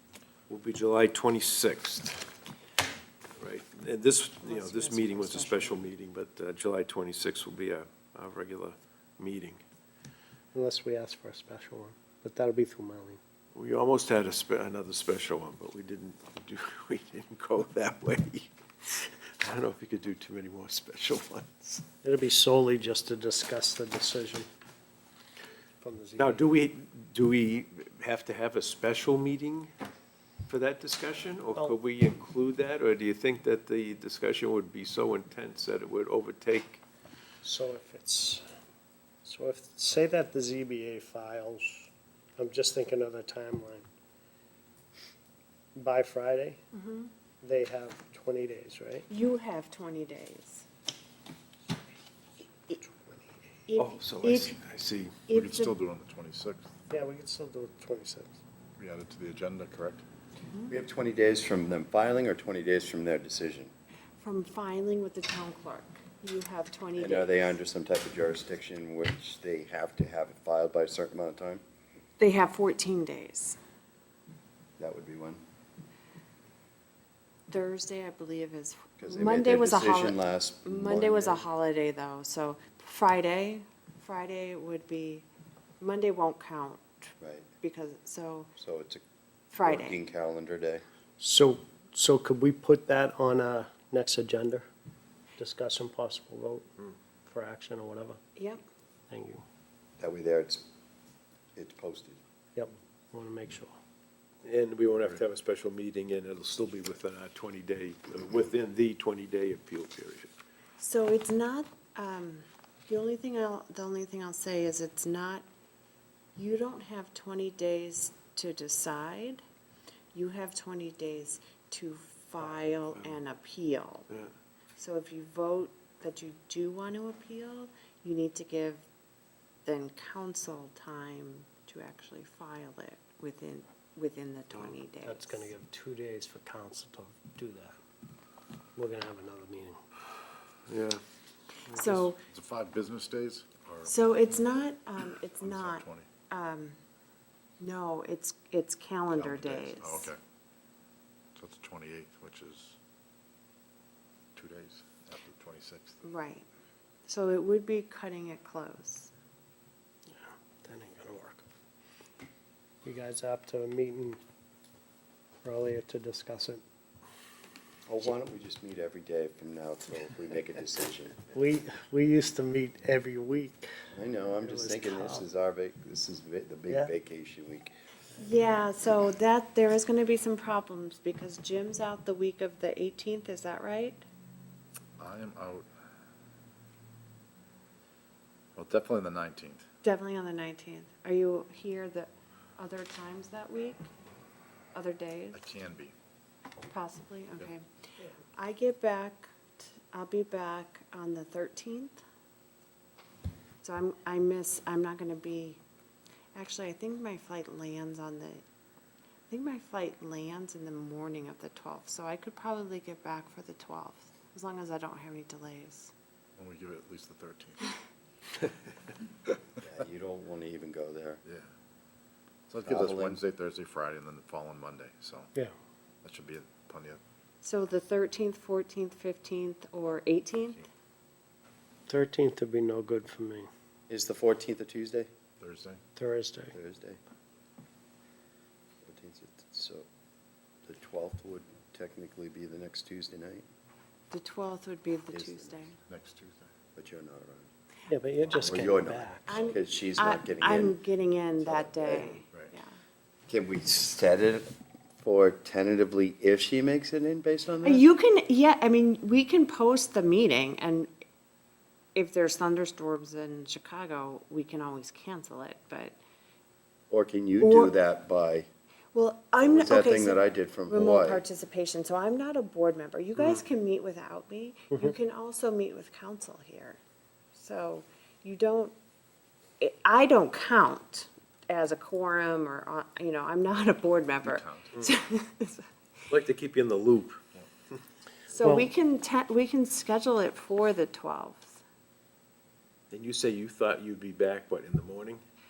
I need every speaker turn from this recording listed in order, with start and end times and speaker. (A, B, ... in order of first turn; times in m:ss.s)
0:00.5-0:02.3 A
0:03.4-0:09.6 A
0:04.4-0:05.9 B
0:10.5-0:13.2 C
0:13.6-0:21.9 A
0:22.0-0:24.5 C
0:25.8-0:26.5 C
0:26.2-0:29.7 A
0:30.5-0:36.8 A
0:37.4-0:38.4 C
0:39.2-0:43.9 C
0:45.8-0:46.6 C
0:46.7-0:47.1 B
0:47.4-0:49.1 C
0:49.1-0:50.7 B
0:52.8-0:53.3 C
0:53.7-0:54.6 B
0:53.8-0:55.1 A
0:55.3-0:55.8 B
0:55.3-0:56.7 D
0:56.9-0:58.4 C
0:58.8-1:00.0 D
1:00.7-1:03.7 E
1:04.2-1:07.6 B
1:07.0-1:11.6 E
1:12.2-1:13.6 B
1:14.8-1:15.4 E
1:17.5-1:25.3 B
1:19.0-1:21.4 E
1:25.8-1:28.5 B
1:27.2-1:27.5 E
1:28.6-1:29.0 E
1:29.5-1:30.0 B
1:29.6-1:30.8 E
1:31.2-1:34.7 C
1:35.4-1:36.6 C
1:37.3-1:38.2 C
1:38.4-1:38.6 B
1:39.1-1:39.4 C
1:40.0-1:40.6 E
1:41.6-1:42.2 E
1:42.6-1:43.8 C
1:44.4-1:50.3 A
1:50.8-1:55.4 B
1:56.4-1:59.4 B
2:00.1-2:04.1 B
2:02.4-2:03.2 A
2:04.1-2:04.3 A
2:04.8-2:08.9 B
2:09.7-2:15.5 B
2:15.0-2:17.8 C
2:18.8-2:19.8 C
2:20.7-2:21.0 A
2:21.7-2:22.1 A
2:21.8-2:22.2 B
2:22.3-2:24.0 D
2:23.8-2:26.8 B
2:25.4-2:26.1 D
2:27.6-2:30.1 B
2:29.1-2:30.2 D
2:31.4-2:32.8 D
2:34.4-2:36.0 D
2:36.0-2:36.5 B
2:37.1-2:39.1 B
2:40.1-2:41.4 C
2:42.8-2:44.2 C
2:45.4-2:46.6 C
2:47.9-2:51.2 E
2:51.3-2:53.7 C
2:53.9-2:57.7 E
2:54.4-2:55.3 C
2:58.2-3:04.0 B
3:05.0-3:05.7 D
3:08.6-3:09.6 D
3:09.8-3:13.9 B
3:14.7-3:15.5 B
3:15.3-3:15.9 D
3:16.7-3:17.6 B
3:18.4-3:22.0 B
3:23.6-3:25.6 B
3:26.4-3:28.4 B
3:29.3-3:35.9 B
3:36.4-3:37.7 D
3:39.6-3:41.2 E
3:42.5-3:45.3 D
3:42.6-3:43.2 E
3:46.0-3:47.0 D
3:47.4-3:50.6 B
3:50.4-3:50.6 D
3:51.9-3:53.5 C
3:53.9-3:55.1 E
3:55.4-3:55.8 D
3:56.0-3:56.6 C
3:56.5-3:57.0 E
3:58.8-3:59.9 E
4:00.6-4:03.4 E
4:04.1-4:05.8 B
4:05.1-4:05.6 E
4:05.9-4:06.5 D
4:06.8-4:07.5 E
4:07.9-4:09.3 C
4:08.3-4:08.8 D
4:08.3-4:10.8 E
4:09.2-4:12.8 B
4:11.4-4:12.2 E
4:13.3-4:17.8 E
4:17.6-4:20.9 B
4:22.0-4:26.0 B
4:26.9-4:28.5 E
4:27.4-4:27.7 B
4:28.9-4:36.8 B
4:29.4-4:31.2 E
4:37.4-4:38.7 B
4:39.6-4:45.7 B
4:44.2-4:44.7 D
4:46.1-4:47.2 A
4:48.3-4:51.6 B
4:48.4-4:48.7 C
4:52.9-4:55.2 A